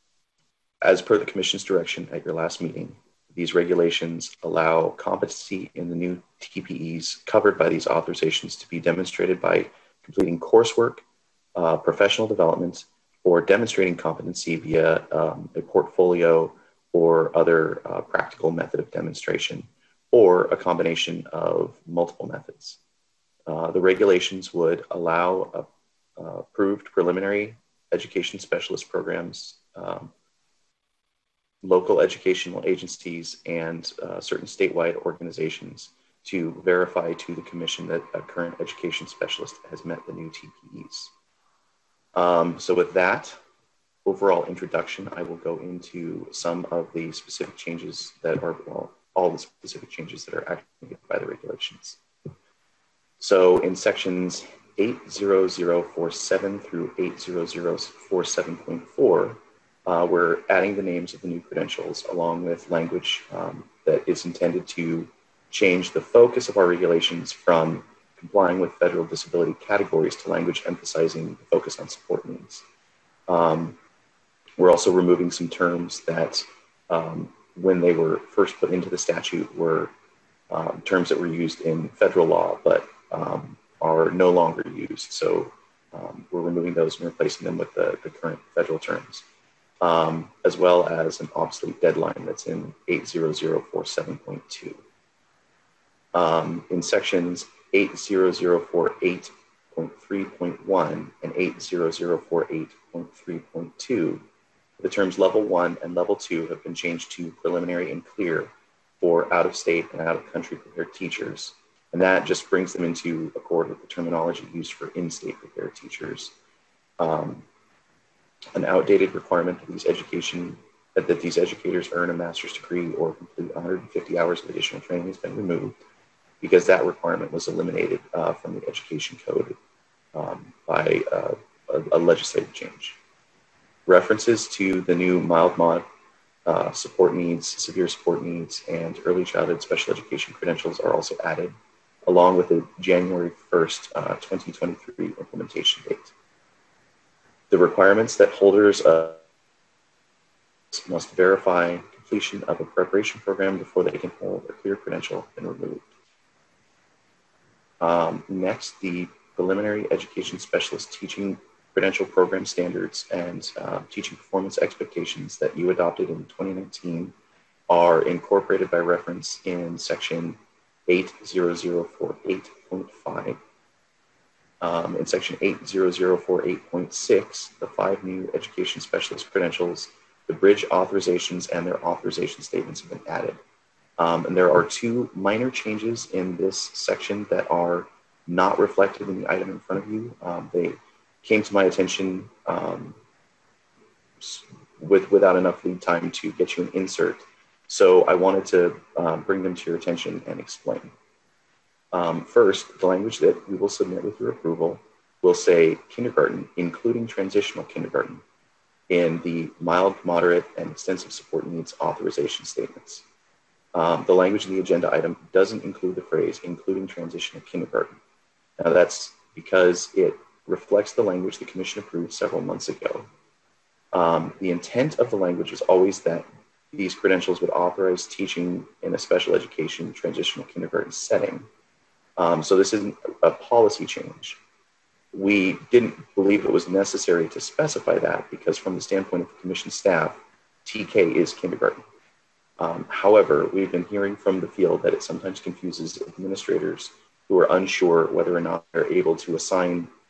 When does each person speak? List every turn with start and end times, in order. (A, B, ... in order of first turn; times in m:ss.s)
0:00.8-0:11.0 A
0:11.6-0:22.8 A
0:23.5-0:30.1 A
0:31.6-0:41.1 A
0:42.2-0:43.4 A
0:44.0-0:52.0 A
0:53.2-1:12.6 A
1:13.3-1:13.8 A
1:14.6-1:19.9 A
1:20.5-1:29.2 A
1:29.8-1:34.8 A
1:36.1-1:44.2 A
1:44.8-1:56.3 A
1:57.0-1:57.4 A
1:58.6-2:05.8 A
2:06.4-2:09.6 A
2:10.2-2:13.0 A
2:13.9-2:15.9 A
2:16.5-2:26.1 A
2:27.5-2:29.2 A
2:30.7-2:35.8 A
2:37.8-2:47.1 A
2:47.7-2:53.4 A
2:54.6-3:03.4 A
3:04.0-3:13.0 A
3:14.2-3:20.9 A
3:21.9-3:28.2 A
3:28.9-3:33.0 A
3:33.7-3:38.0 A
3:38.6-3:43.1 A
3:43.9-3:51.5 A
3:52.2-3:54.4 A
3:55.1-4:01.8 A
4:02.6-4:09.9 A